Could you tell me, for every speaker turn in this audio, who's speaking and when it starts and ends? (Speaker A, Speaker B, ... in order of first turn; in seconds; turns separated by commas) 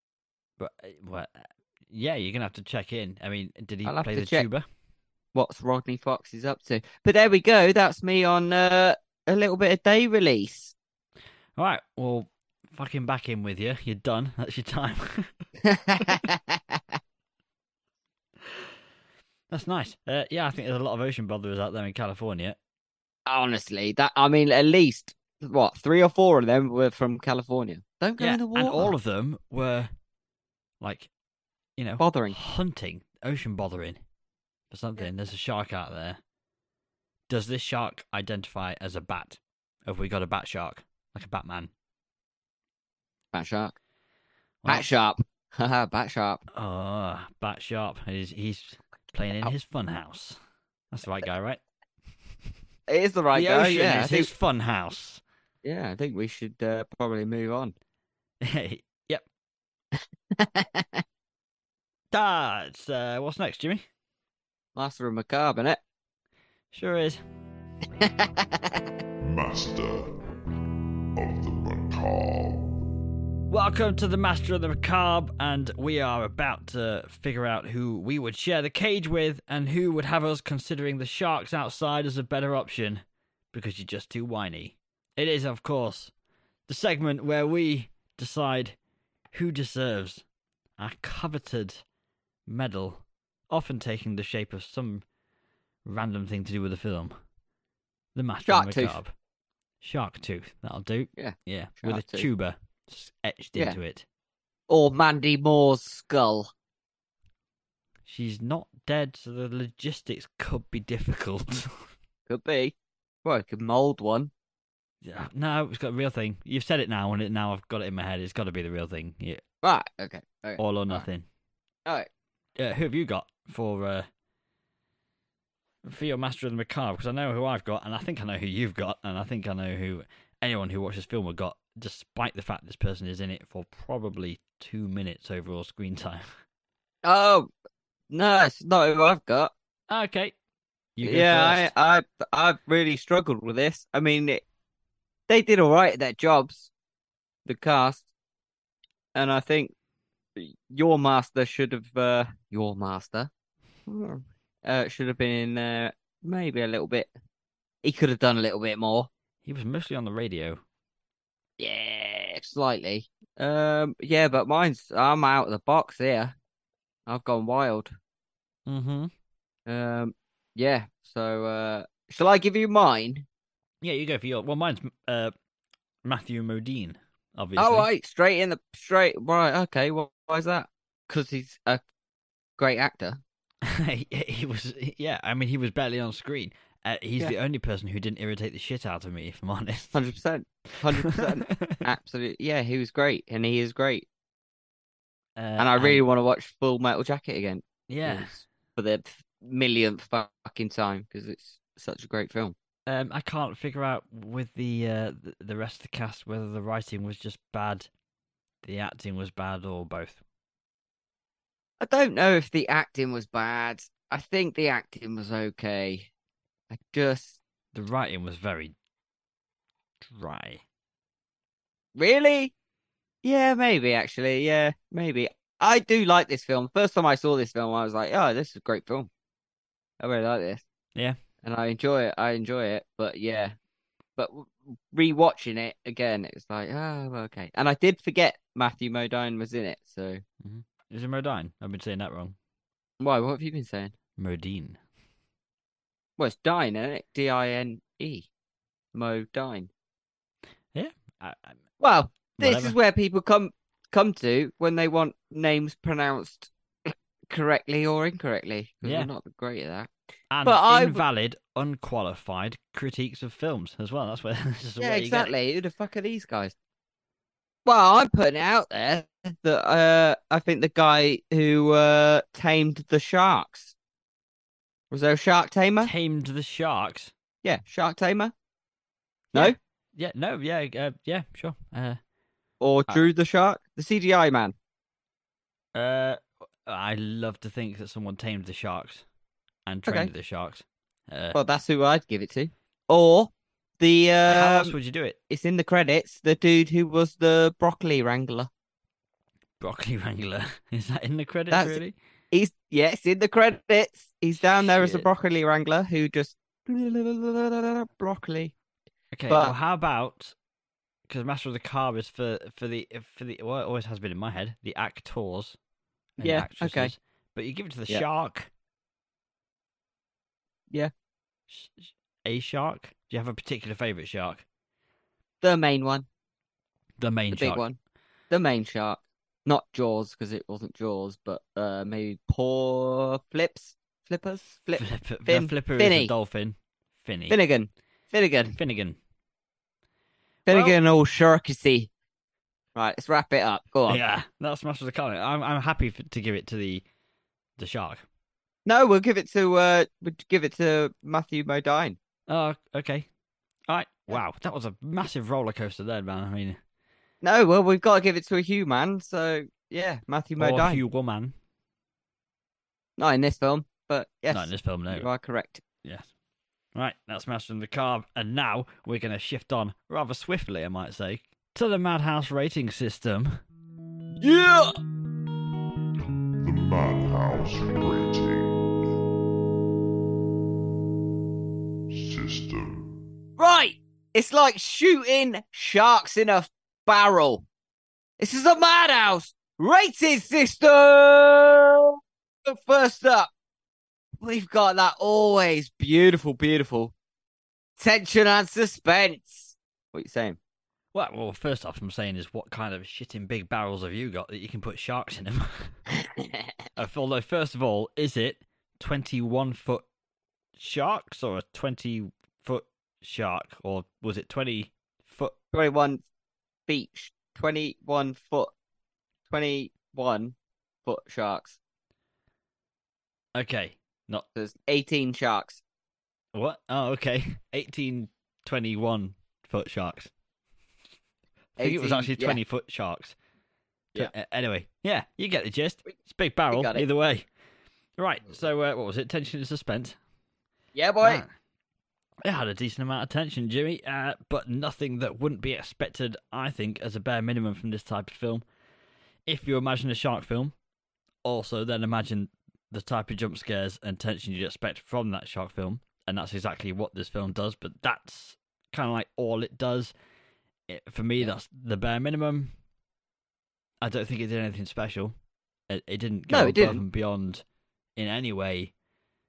Speaker A: 0.6-4.7, Speaker B: 3.9-4.5, Speaker B: 5.3-10.8, Speaker A: 11.6-15.3, Speaker B: 15.6-16.8, Speaker A: 19.5-22.6, Speaker B: 23.3-28.9, Speaker A: 28.2-29.9, Speaker A: 30.8-31.1, Speaker A: 31.8-34.0, Speaker B: 32.0-32.4, Speaker A: 34.7-36.2, Speaker A: 37.3-41.7, Speaker B: 43.3-43.8, Speaker B: 44.7-46.4, Speaker A: 46.5-50.4, Speaker A: 50.9-51.6, Speaker B: 52.9-54.3, Speaker A: 53.3-55.2, Speaker B: 55.6-57.7, Speaker A: 58.4-59.2, Speaker B: 60.3-61.0, Speaker A: 62.1-63.9, Speaker B: 64.8-65.8, Speaker A: 66.7-67.2, Speaker B: 68.0-68.7, Speaker C: 69.2-70.1, Speaker C: 71.2-72.7, Speaker A: 73.5-86.1, Speaker A: 86.7-88.8, Speaker A: 89.3-90.2, Speaker A: 90.8-91.8, Speaker A: 92.5-95.0, Speaker A: 95.8-97.2, Speaker A: 98.2-99.1, Speaker B: 98.5-99.0, Speaker A: 99.8-104.0, Speaker B: 101.2-102.3, Speaker B: 104.7-106.5, Speaker A: 108.1-111.9, Speaker B: 112.3-114.3, Speaker A: 115.0-119.4, Speaker B: 119.6-121.1, Speaker A: 120.6-121.3, Speaker A: 122.6-124.1, Speaker A: 125.8-136.3, Speaker B: 137.0-137.5, Speaker B: 138.1-139.5, Speaker A: 139.9-140.3, Speaker A: 141.0-141.7, Speaker B: 141.0-144.4, Speaker B: 145.3-146.7, Speaker B: 147.4-148.1, Speaker B: 149.1-149.7, Speaker B: 150.4-153.3, Speaker B: 153.9-157.1, Speaker B: 157.8-159.1, Speaker A: 159.4-160.6, Speaker B: 161.6-166.3, Speaker B: 167.1-167.9, Speaker A: 168.7-169.1, Speaker B: 169.7-173.3, Speaker A: 173.8-175.3, Speaker A: 176.1-177.9, Speaker B: 177.6-181.8, Speaker B: 182.6-183.2, Speaker A: 183.7-189.9, Speaker B: 189.9-194.1, Speaker A: 191.0-191.8, Speaker A: 195.4-196.0, Speaker B: 195.6-202.6, Speaker A: 197.9-198.3, Speaker A: 202.9-207.9, Speaker A: 208.6-210.2, Speaker B: 211.8-216.1, Speaker B: 216.7-217.4, Speaker A: 217.7-218.8, Speaker A: 220.1-220.6, Speaker B: 222.0-222.5, Speaker B: 223.2-229.1, Speaker B: 230.0-230.6, Speaker B: 231.4-233.6, Speaker B: 234.2-240.2, Speaker A: 240.4-242.4, Speaker B: 243.0-243.9, Speaker A: 244.2-244.8, Speaker B: 246.2-248.3, Speaker B: 248.9-249.7, Speaker A: 250.7-251.6, Speaker B: 251.8-259.9, Speaker A: 252.3-252.8, Speaker A: 258.8-259.1, Speaker A: 260.3-265.3, Speaker B: 260.4-261.0, Speaker B: 264.8-266.6, Speaker B: 267.6-273.7, Speaker B: 274.9-275.9, Speaker A: 275.8-277.1, Speaker B: 277.4-278.3, Speaker A: 279.3-282.0, Speaker B: 282.6-284.6, Speaker A: 285.7-289.0, Speaker A: 289.7-291.4, Speaker B: 291.3-294.8, Speaker A: 294.3-295.2, Speaker B: 295.3-298.5, Speaker A: 299.6-301.9, Speaker B: 301.5-301.8, Speaker B: 302.3-308.5, Speaker A: 304.6-305.1, Speaker A: 309.1-310.4, Speaker B: 309.3-309.6, Speaker A: 311.1-315.6, Speaker A: 316.2-318.5, Speaker B: 316.2-316.9, Speaker A: 321.5-324.4, Speaker B: 325.4-326.1, Speaker A: 327.0-327.6, Speaker B: 327.3-327.8, Speaker B: 328.3-336.1, Speaker A: 334.8-337.4, Speaker B: 337.3-338.6, Speaker A: 338.6-339.0, Speaker B: 340.5-341.9, Speaker A: 340.5-340.8, Speaker B: 342.8-344.0, Speaker A: 343.9-346.9, Speaker A: 347.6-348.1, Speaker B: 348.7-352.0, Speaker A: 352.3-353.1, Speaker A: 353.7-356.6, Speaker B: 357.2-360.8, Speaker A: 360.4-361.4, Speaker B: 363.0-365.6, Speaker A: 364.3-365.1, Speaker A: 365.8-366.1, Speaker A: 366.8-373.4, Speaker B: 374.2-374.7, Speaker C: 376.4-378.6, Speaker C: 381.9-382.9, Speaker B: 383.4-387.5, Speaker B: 388.2-393.3, Speaker B: 394.2-396.9, Speaker B: 397.8-400.4, Speaker A: 400.9-405.8, Speaker B: 406.2-406.5, Speaker A: 406.8-409.9, Speaker A: 410.6-415.4, Speaker B: 415.5-416.0, Speaker B: 416.7-418.5, Speaker B: 419.3-421.6, Speaker A: 423.4-424.3, Speaker B: 424.4-425.6, Speaker A: 426.3-430.1, Speaker B: 431.6-432.4, Speaker A: 431.6-433.2, Speaker A: 433.9-437.3, Speaker B: 436.5-436.9, Speaker A: 438.0-440.0, Speaker B: 440.7-441.2, Speaker A: 441.0-441.3, Speaker A: 442.2-448.4, Speaker A: 449.3-450.5, Speaker A: 451.2-459.9, Speaker A: 460.7-462.5, Speaker A: 463.8-465.1, Speaker A: 465.7-467.4, Speaker B: 466.3-466.8, Speaker A: 468.0-468.7